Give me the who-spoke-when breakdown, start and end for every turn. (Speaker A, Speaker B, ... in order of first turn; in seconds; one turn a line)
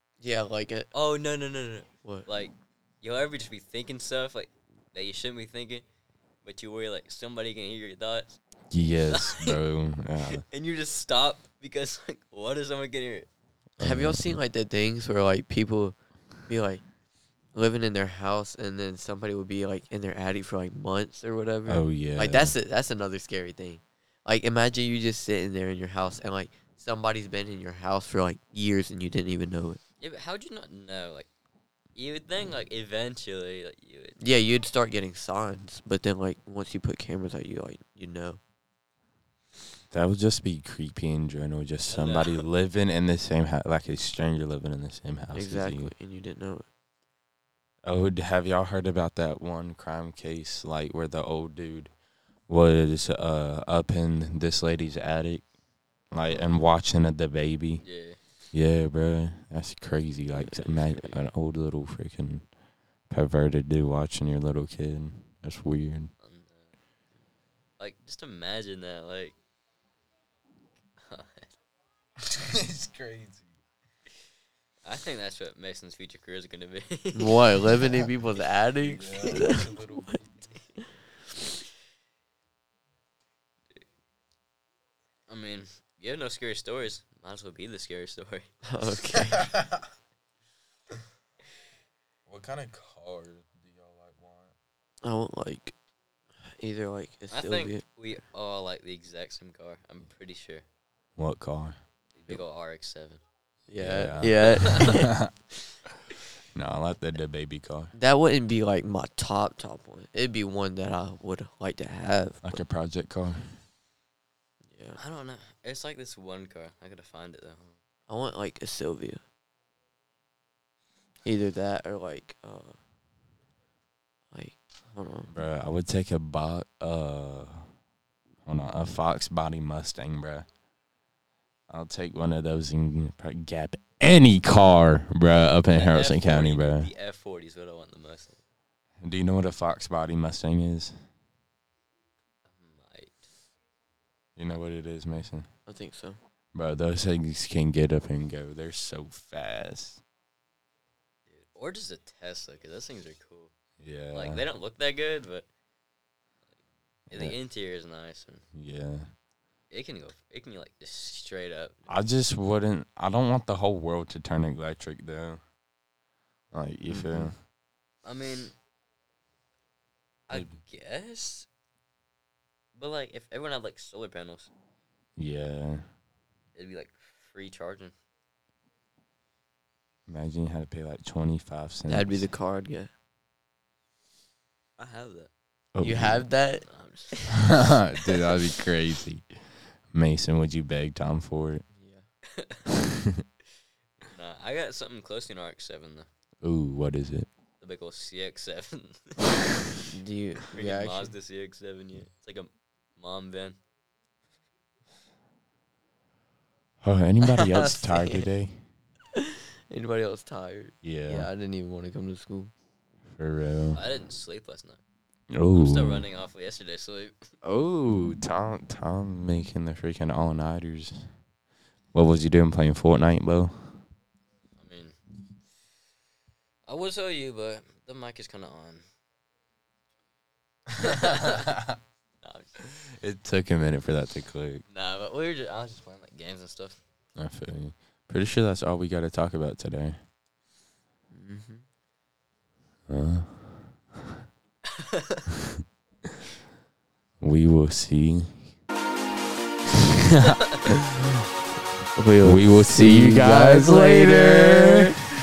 Speaker A: 0.2-0.9
Speaker B: 0.9-5.8
Speaker B: 6.4-8.4
Speaker C: 8.7-10.4
Speaker B: 9.1-9.5
Speaker B: 10.3-13.3
Speaker C: 13.8-14.4
Speaker A: 13.8-16.0
Speaker A: 16.5-16.8
Speaker A: 17.5-29.8
Speaker C: 21.7-22.6
Speaker B: 30.0-31.3
Speaker B: 32.0-34.2
Speaker A: 34.2-38.4
Speaker C: 39.9-45.9
Speaker B: 41.9-42.4
Speaker A: 45.3-46.7
Speaker C: 47.8-51.9
Speaker C: 52.5-55.5
Speaker C: 56.1-57.8
Speaker B: 57.8-58.2
Speaker C: 58.5-62.5
Speaker A: 60.4-61.2
Speaker C: 63.1-66.1
Speaker B: 66.2-66.7
Speaker B: 67.8-69.4
Speaker B: 71.0-71.5
Speaker C: 72.2-73.5
Speaker B: 74.8-77.4
Speaker A: 77.1-79.7
Speaker C: 78.8-80.5
Speaker B: 79.2-79.7
Speaker B: 85.3-88.5
Speaker A: 88.7-89.5
Speaker C: 89.3-89.8
Speaker C: 92.3-94.5
Speaker A: 95.0-95.7
Speaker A: 96.6-97.8
Speaker B: 97.3-100.7
Speaker C: 101.2-101.8
Speaker B: 102.2-103.2
Speaker A: 103.7-105.2
Speaker C: 103.8-105.3
Speaker B: 104.6-104.9
Speaker C: 106.5-107.9
Speaker A: 107.9-112.6
Speaker C: 112.4-113.6
Speaker A: 114.7-115.0
Speaker B: 115.0-117.8
Speaker A: 118.1-119.2
Speaker A: 121.2-122.8
Speaker A: 124.3-125.3
Speaker C: 125.3-127.7
Speaker C: 128.5-130.5
Speaker C: 131.7-136.9
Speaker B: 135.7-138.4
Speaker C: 139.0-140.9
Speaker B: 142.5-143.3
Speaker C: 144.4-145.5
Speaker A: 145.7-146.2
Speaker C: 146.5-150.0
Speaker B: 151.3-153.5
Speaker C: 153.8-154.4
Speaker B: 154.1-155.5
Speaker B: 157.1-158.4
Speaker C: 157.1-157.4
Speaker C: 158.5-159.1
Speaker B: 159.7-161.9
Speaker C: 161.9-165.4
Speaker C: 166.5-167.3
Speaker A: 166.9-167.3
Speaker B: 168.1-168.5
Speaker B: 170.3-171.5
Speaker B: 172.8-174.5
Speaker C: 175.2-175.8
Speaker B: 176.6-177.9
Speaker C: 180.1-182.3
Speaker A: 181.9-182.9
Speaker B: 184.8-185.3
Speaker C: 185.7-186.2
Speaker A: 185.8-186.7
Speaker B: 186.6-188.4
Speaker C: 187.3-189.3
Speaker C: 189.9-191.7
Speaker A: 191.7-192.1
Speaker B: 192.4-192.7
Speaker B: 194.1-196.1
Speaker C: 196.4-197.3
Speaker B: 197.6-199.2
Speaker A: 199.9-201.1
Speaker B: 200.5-203.6
Speaker C: 206.8-208.6
Speaker A: 207.3-208.2
Speaker A: 209.2-212.5
Speaker C: 210.8-211.3
Speaker C: 213.2-213.8
Speaker B: 213.7-214.8
Speaker C: 215.3-216.1
Speaker B: 215.6-217.2
Speaker C: 217.4-221.0
Speaker C: 221.9-223.8
Speaker B: 224.6-224.9
Speaker B: 226.7-228.8
Speaker B: 230.8-231.5
Speaker B: 232.2-232.6
Speaker C: 232.9-234.6
Speaker B: 234.7-236.8
Speaker C: 237.2-240.0
Speaker A: 241.1-241.6
Speaker C: 242.9-243.7
Speaker B: 244.9-245.2
Speaker C: 247.2-248.5
Speaker C: 250.1-250.9
Speaker A: 251.9-254.9
Speaker C: 252.2-254.8